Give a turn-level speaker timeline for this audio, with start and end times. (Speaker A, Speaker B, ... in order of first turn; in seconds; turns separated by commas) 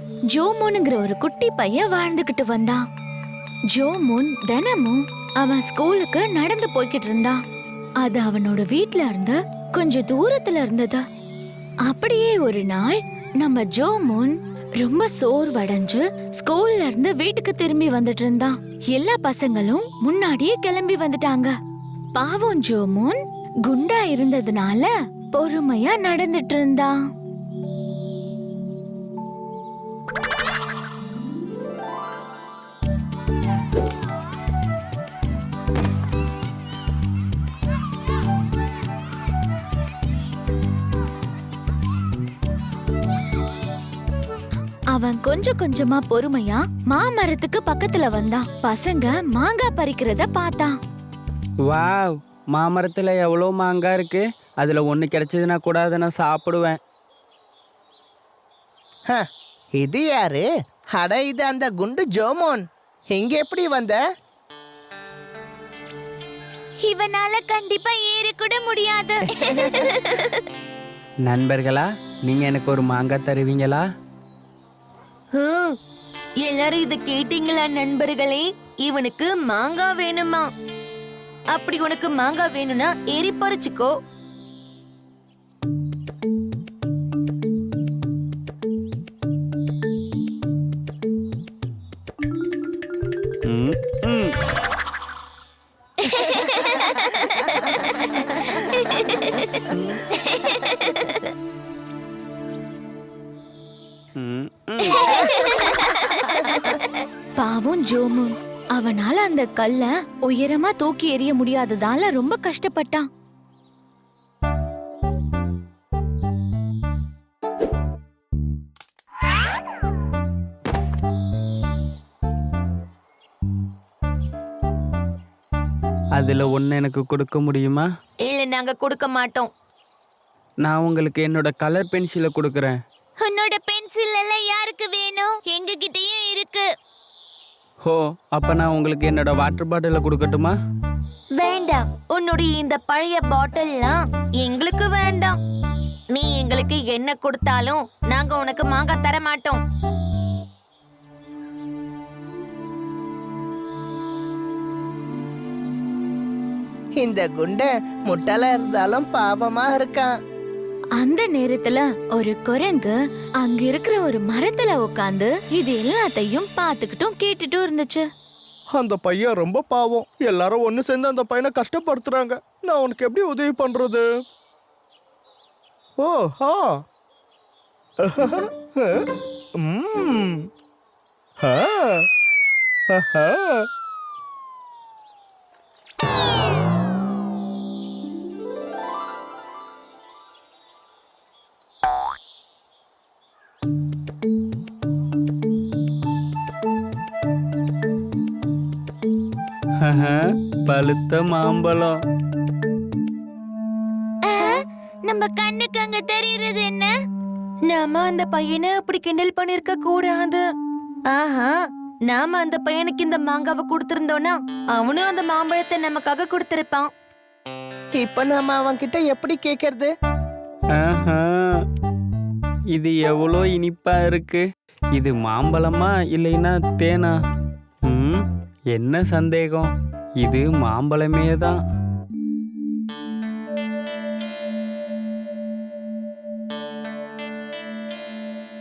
Speaker A: 0.3-2.8, Speaker A: 3.7-7.4, Speaker A: 8.0-11.0, Speaker A: 11.9-21.5, Speaker A: 22.1-27.0, Speaker A: 44.9-50.7, Speaker B: 51.6-56.8, Speaker C: 59.8-64.0, Speaker A: 66.8-70.2, Speaker B: 71.2-73.8, Speaker D: 75.3-75.7, Speaker D: 76.4-80.4, Speaker D: 81.5-83.9, Speaker B: 93.4-94.3, Speaker A: 96.1-99.6, Speaker B: 99.7-100.0, Speaker A: 100.2-100.7, Speaker B: 104.2-105.1, Speaker A: 104.8-106.5, Speaker A: 107.3-113.0, Speaker B: 126.1-127.9, Speaker D: 128.2-129.5, Speaker B: 130.6-132.8, Speaker A: 133.2-136.7, Speaker B: 137.8-140.5, Speaker D: 141.3-145.4, Speaker D: 146.1-149.6, Speaker C: 157.0-160.1, Speaker A: 161.0-168.1, Speaker E: 168.8-174.0, Speaker E: 176.0-176.6, Speaker E: 178.1-178.3, Speaker E: 181.5-181.8, Speaker E: 183.1-183.5, Speaker B: 199.8-201.9, Speaker A: 204.2-206.9, Speaker D: 207.7-210.4, Speaker D: 211.1-211.5, Speaker D: 212.1-216.9, Speaker C: 218.0-219.9, Speaker B: 220.7-221.6, Speaker B: 222.7-227.2, Speaker B: 227.9-231.6